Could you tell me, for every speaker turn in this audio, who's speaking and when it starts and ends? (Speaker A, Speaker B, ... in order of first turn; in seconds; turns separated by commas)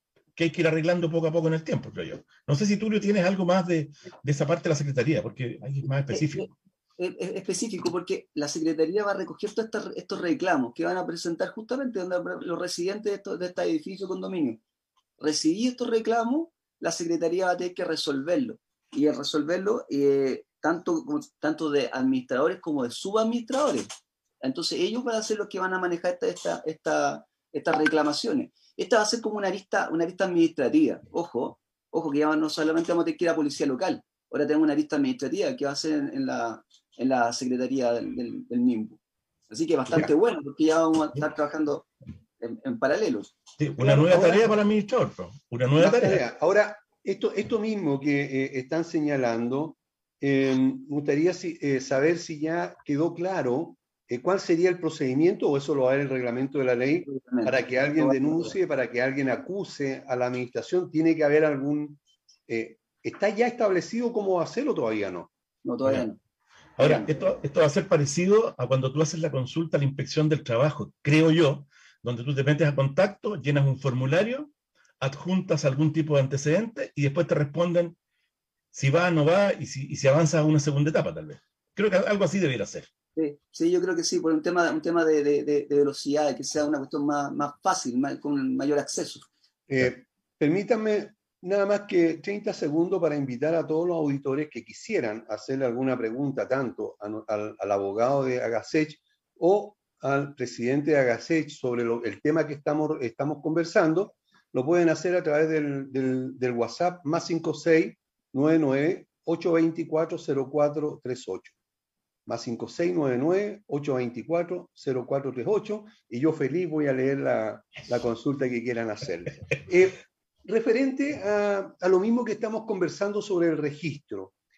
Speaker A: 0.4-6.5, Speaker B: 6.1-14.6, Speaker B: 15.2-23.9, Speaker B: 24.4-39.0, Speaker B: 39.5-41.9, Speaker B: 42.4-43.3, Speaker A: 43.6-46.2, Speaker C: 43.8-44.5, Speaker C: 45.8-65.3, Speaker B: 57.1-58.5, Speaker B: 65.7-66.2, Speaker A: 66.8-78.0, Speaker C: 66.8-67.1, Speaker A: 78.7-82.9, Speaker B: 83.2-89.3, Speaker C: 89.7-111.5, Speaker C: 112.3-124.3